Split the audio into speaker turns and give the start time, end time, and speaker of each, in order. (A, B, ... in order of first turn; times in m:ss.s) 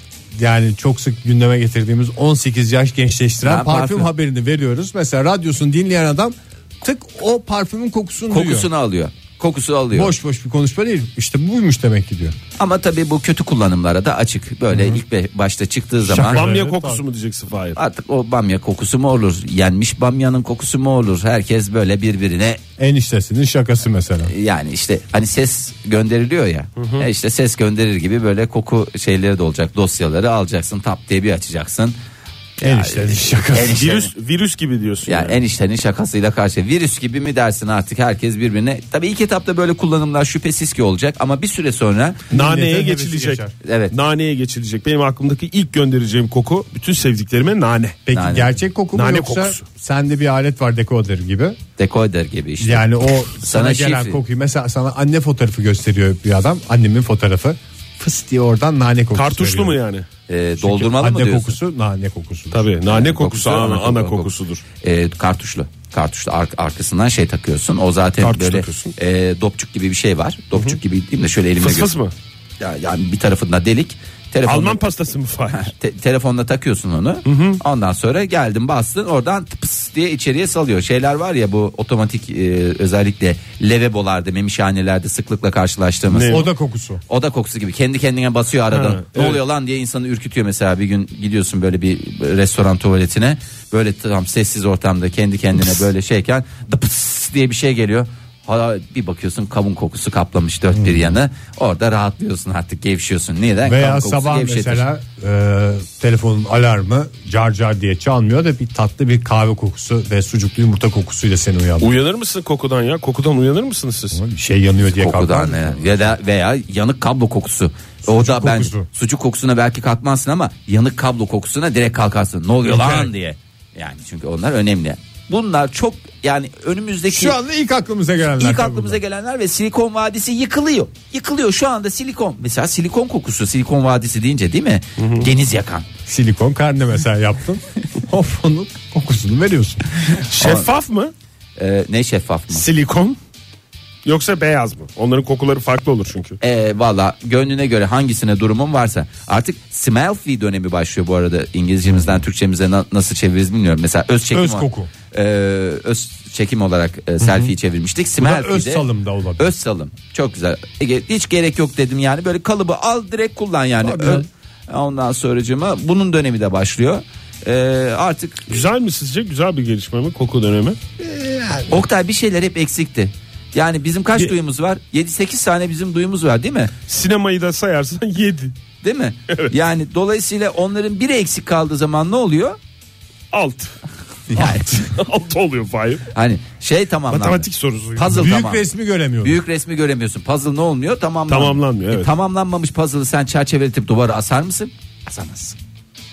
0:00.3-0:08.7 A
0:03.4-0:04.1 B
0:08.3-0:10.1 B
0:09.9-0:12.4 A
0:12.6-0:16.5 B
0:14.7-0:15.0 A
0:16.0-0:17.0 A
0:16.3-0:17.8 C
0:17.8-0:22.6 B
0:22.8-0:24.3 A
0:24.3-0:32.0 B
0:26.8-0:27.1 C
0:32.6-0:34.1 B
0:32.6-0:33.9 A
0:33.6-0:35.4 C
0:35.0-0:42.2 B
0:42.3-0:43.5 A
0:42.3-0:48.0 C
0:43.6-0:43.9 B
0:48.0-0:51.6 A
0:48.1-0:48.5 B
0:48.9-0:49.6 C
0:51.8-0:52.9 B
0:52.6-0:59.8 A
0:53.4-0:54.2 B
0:59.1-1:00.1 C
1:00.3-1:01.6 B
1:00.6-1:02.7 A
1:02.5-1:04.6 C
1:02.8-1:04.3 B
1:04.8-1:11.9 B
1:08.2-1:08.9 C
1:11.6-1:12.1 C
1:12.6-1:14.8 B
1:14.4-1:15.7 C
1:15.5-1:26.4 B
1:17.2-1:17.6 C
1:26.1-1:26.5 C
1:26.3-1:27.0 A
1:27.1-1:44.8 B
1:28.7-1:29.4 C
1:40.7-1:41.2 A
1:43.6-1:51.9 A
1:51.8-1:54.2 C
1:54.1-1:56.1 A
1:54.8-2:07.4 B
1:58.0-1:58.9 A
2:02.6-2:03.1 A
2:07.1-2:09.0 A
2:08.4-2:15.9 B
2:15.0-2:15.3 C
2:16.1-2:19.8 A
2:20.3-2:21.1 C
2:20.4-2:20.7 B
2:21.6-2:22.7 B
2:22.5-2:23.2 C
2:24.0-2:26.4 C
2:26.4-2:38.9 B
2:34.3-2:34.9 A
2:37.2-2:37.5 A
2:38.2-2:39.5 A
2:39.4-2:48.5 B
2:43.8-2:44.2 A
2:48.5-2:50.8 C
2:51.0-2:51.7 A
2:51.7-2:56.7 B
2:56.9-2:58.5 C
2:58.8-3:02.6 B
3:03.3-3:03.8 C
3:04.3-3:04.9 B
3:04.3-3:06.0 C
3:06.1-3:08.6 B
3:07.1-3:08.3 C
3:08.0-3:09.4 A
3:09.2-3:15.6 B
3:11.3-3:12.1 C